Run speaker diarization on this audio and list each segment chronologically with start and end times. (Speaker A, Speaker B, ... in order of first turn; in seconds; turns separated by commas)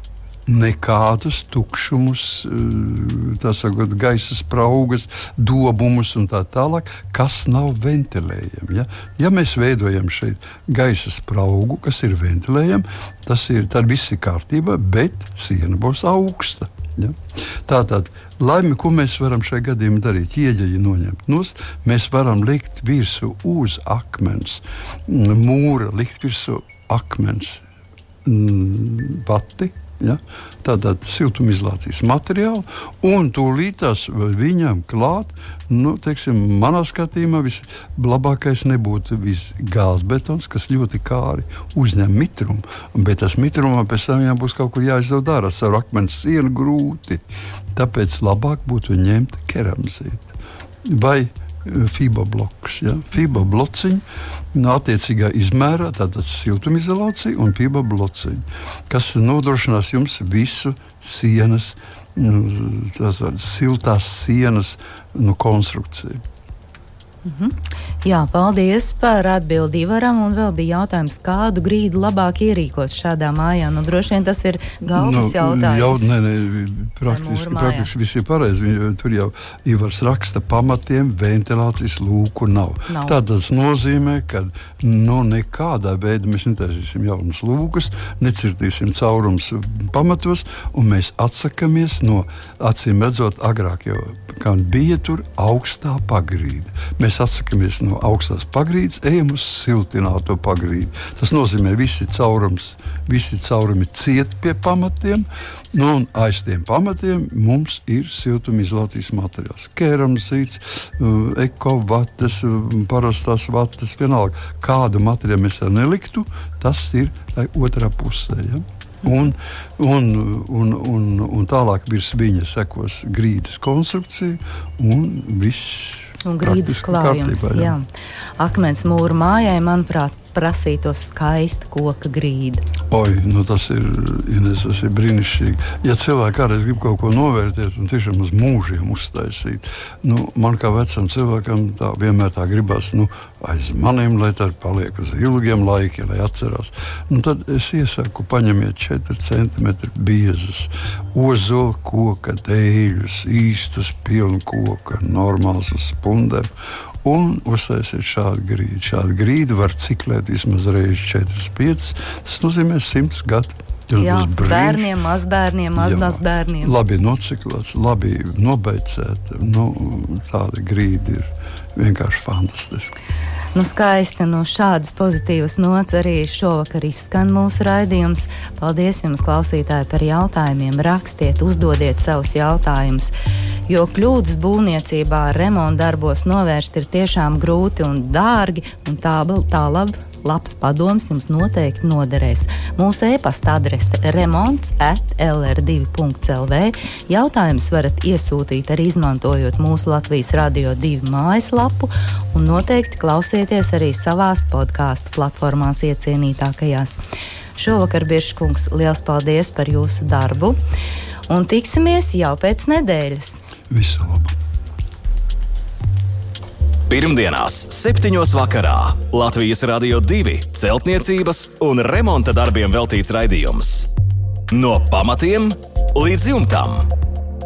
Speaker A: 0.5-27.6, Speaker A: 28.2-54.0, Speaker A: 54.5-66.2, Speaker B: 67.2-76.1, Speaker A: 74.9-127.8, Speaker B: 77.1-77.9, Speaker B: 82.9-83.2, Speaker B: 126.2-127.9, Speaker B: 128.4-132.6, Speaker A: 132.9-156.5, Speaker A: 157.0-164.9, Speaker B: 164.0-166.7, Speaker A: 165.8-173.0, Speaker B: 173.6-183.1, Speaker B: 183.7-207.0, Speaker B: 207.6-210.6, Speaker B: 211.3-213.4, Speaker A: 213.7-214.3, Speaker C: 216.9-223.9, Speaker C: 224.5-226.9